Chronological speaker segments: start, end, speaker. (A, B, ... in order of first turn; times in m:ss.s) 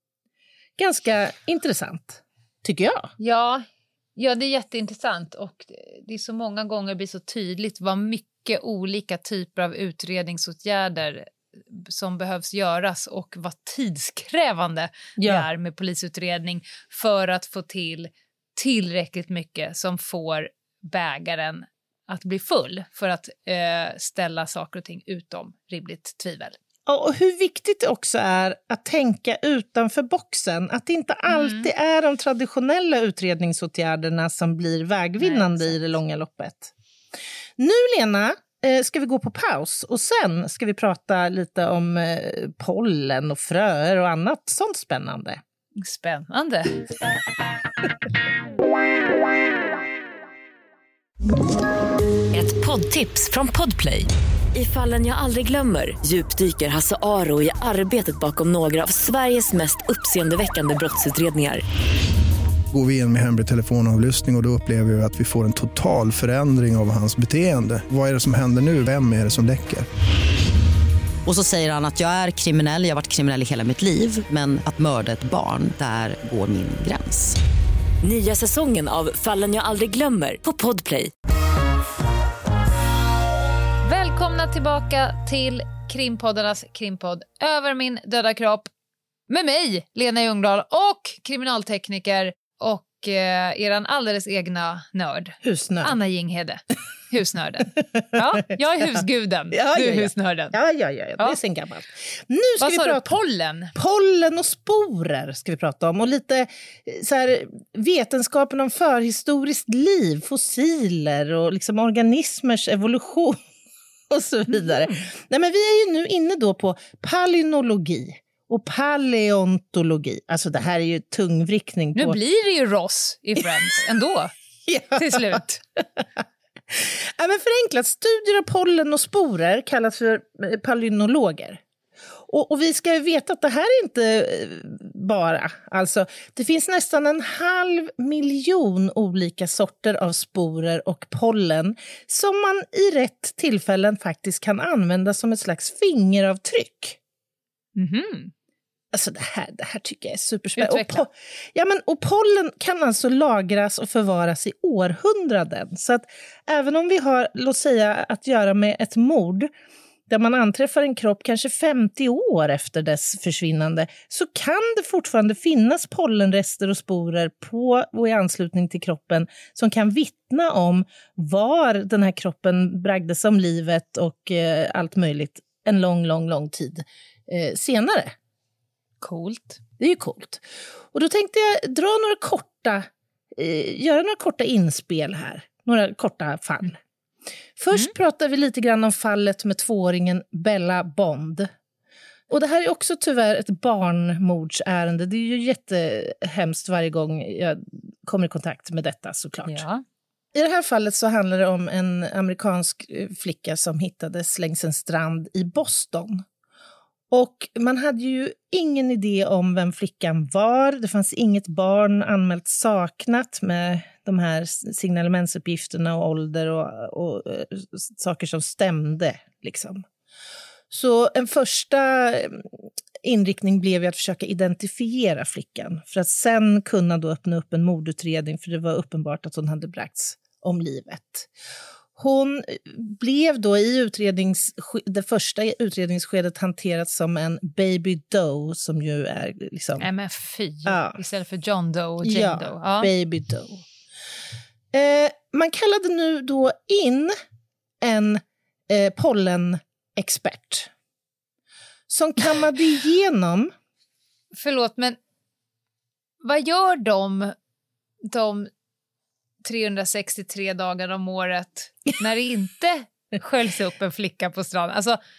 0:00.8-0:03.1 A
0:03.2-0:26.6 B
0:15.2-0:15.5 A
0:26.9-0:36.7 A
0:31.3-0:31.7 B
0:35.2-0:36.0 B
0:37.6-0:45.4 A
0:45.8-0:46.8 B
0:52.3-1:01.6 C
1:02.7-1:09.8 D
1:11.2-1:17.4 E
1:18.0-1:21.1 C
1:23.8-1:28.7 B
1:29.3-1:36.6 B
1:35.4-1:35.9 A
1:37.1-1:40.5 B
1:39.5-1:43.1 A
1:42.6-1:43.7 B
1:43.7-1:53.4 A
1:54.1-2:02.2 A
1:54.5-1:55.0 B
2:01.9-2:04.3 B
2:04.7-2:06.0 A
2:04.9-2:05.6 B
2:06.7-2:11.6 A
2:12.3-2:27.0 A
2:27.8-2:28.3 B
2:28.9-2:39.5 A
2:30.6-2:31.0 B
2:40.1-2:58.1 A
2:59.0-2:59.6 B
2:59.8-3:06.8 A
3:07.6-3:11.5 A
3:12.3-3:19.6 A
3:19.4-3:19.8 B
3:20.3-3:26.2 A
3:27.1-3:39.8 A
3:40.7-3:42.4 A
3:43.0-3:51.3 A
3:52.0-3:59.9 A
3:59.8-4:02.9 B
4:00.6-4:01.0 A
4:02.0-4:03.6 A
4:04.7-4:07.1 A
4:07.8-4:10.7 A
4:11.9-4:13.5 A
4:14.4-4:15.0 B
4:16.2-4:17.3 B
4:18.0-4:18.5 B
4:19.4-4:25.0 B